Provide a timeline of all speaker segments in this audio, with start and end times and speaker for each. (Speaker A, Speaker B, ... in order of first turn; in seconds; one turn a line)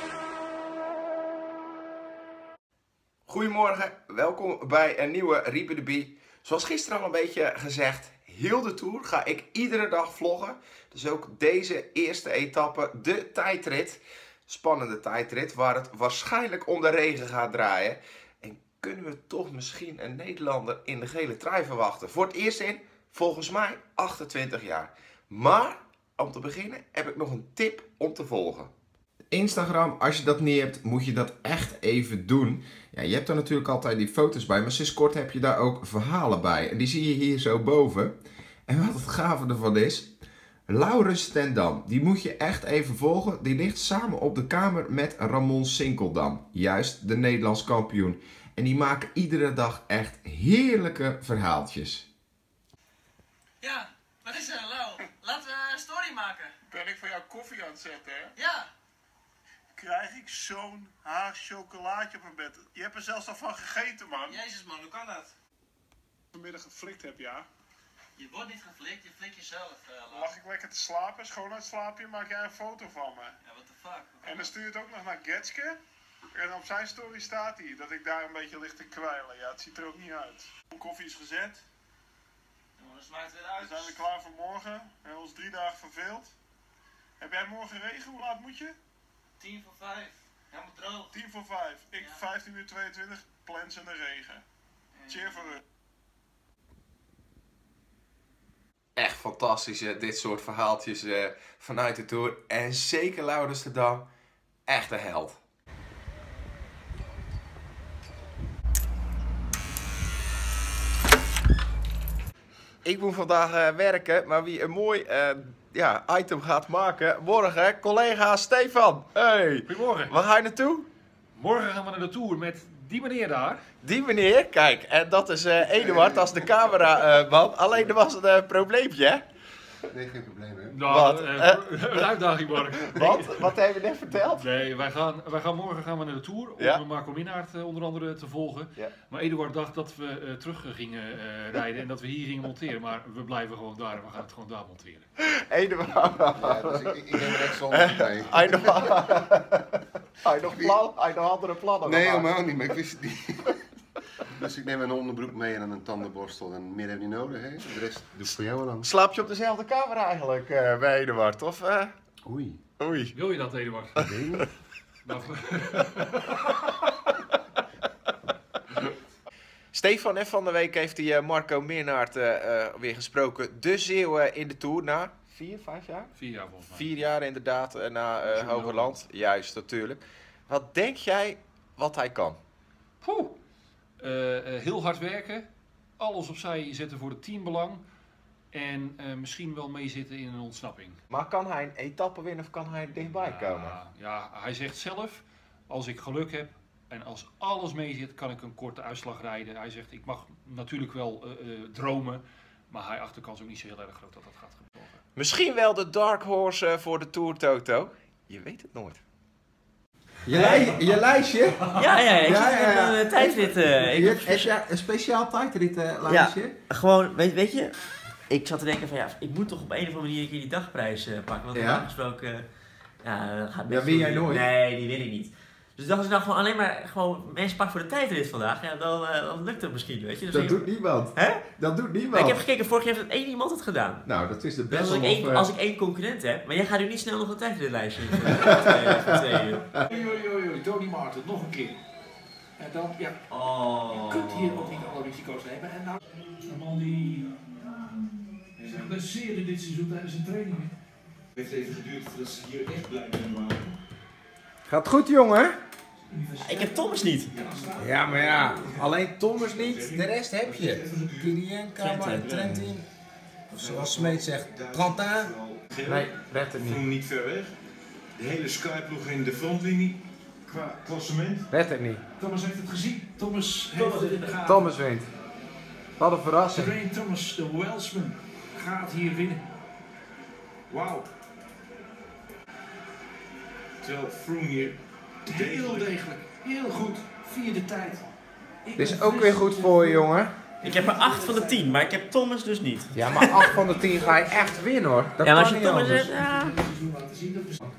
Speaker A: 3.3-28.7
Speaker A: 29.3-40.1
Speaker A: 40.7-52.1
Speaker B: 53.6-56.5
Speaker C: 56.7-58.3
Speaker B: 58.4-58.7
Speaker C: 59.8-64.4
Speaker B: 64.3-65.3
Speaker C: 66.3-67.5
Speaker B: 68.2-70.3
Speaker C: 70.1-73.4
Speaker B: 73.5-74.4
Speaker C: 74.2-75.8
Speaker C: 76.3-81.6
Speaker B: 82.8-84.0
Speaker C: 83.6-86.3
Speaker C: 87.2-88.8
Speaker B: 89.4-91.1
Speaker C: 91.1-94.4
Speaker B: 95.0-95.6
Speaker C: 95.1-95.6
Speaker A: 99.0-104.1
Speaker A: 104.7-105.4
Speaker A: 112.8-120.9
Speaker D: 119.7-120.2
Speaker D: 121.4-123.6
Speaker A: 123.8-129.2
Speaker E: 125.8-126.4
Speaker E: 129.9-130.8
Speaker D: 130.7-133.5
Speaker A: 130.8-132.1
Speaker A: 132.7-134.5
Speaker D: 134.3-145.1
Speaker A: 136.6-136.8
Speaker A: 145.2-152.4
Speaker E: 146.3-149.0
Speaker E: 150.4-150.8
Speaker E: 151.8-153.6
Speaker E: 154.3-158.9
Speaker A: 158.8-161.9
Speaker E: 162.2-162.6
Speaker A: 162.8-163.2
Speaker D: 163.1-164.1
Speaker E: 164.0-164.5
Speaker A: 164.0-164.5
Speaker D: 165.0-166.5
Speaker A: 169.7-176.1
Speaker D: 176.2-176.9
Speaker A: 176.7-182.4
Speaker D: 178.2-178.9
Speaker A: 183.0-183.3
Speaker D: 184.0-185.5
Speaker D: 186.0-187.8
Speaker D: 188.5-191.0
Speaker A: 191.1-193.8
Speaker D: 193.1-205.0
Speaker A: 205.2-209.0
Speaker A: 210.2-211.6
Speaker D: 211.7-212.3
Speaker F: 211.8-214.6
Speaker A: 212.2-216.6
Speaker F: 216.1-217.8
Speaker F: 218.3-222.5
Speaker A: 221.5-221.9
Speaker F: 223.0-231.5
Speaker A: 223.7-224.5
Speaker A: 230.3-232.5
Speaker F: 232.1-234.1
Speaker A: 234.0-235.5
Speaker F: 234.7-239.7
Speaker A: 238.2-239.2
Speaker G: 239.9-241.8
Speaker G: 242.6-243.2
Speaker F: 243.3-245.0
Speaker G: 243.9-247.4
Speaker G: 248.6-250.7
Speaker H: 248.6-249.0
Speaker H: 251.4-253.8
Speaker A: 254.7-255.6
Speaker G: 256.1-258.0
Speaker F: 256.4-257.4
Speaker H: 257.3-258.9
Speaker A: 257.8-262.9
Speaker H: 259.5-261.4
Speaker F: 261.8-262.8
Speaker H: 262.2-262.5
Speaker H: 263.5-267.5
Speaker A: 263.6-265.3
Speaker A: 265.8-266.8
Speaker H: 268.2-271.5
Speaker A: 271.5-272.0
Speaker G: 272.2-274.8
Speaker F: 273.8-274.5
Speaker A: 274.5-275.1
Speaker A: 276.0-276.6
Speaker G: 276.5-279.4
Speaker G: 280.7-281.1
Speaker H: 283.8-286.0
Speaker G: 285.3-288.1
Speaker G: 288.6-290.1
Speaker A: 288.8-290.3
Speaker F: 290.6-293.6
Speaker G: 290.6-291.9
Speaker A: 292.9-296.1
Speaker F: 295.2-296.6
Speaker G: 296.1-297.6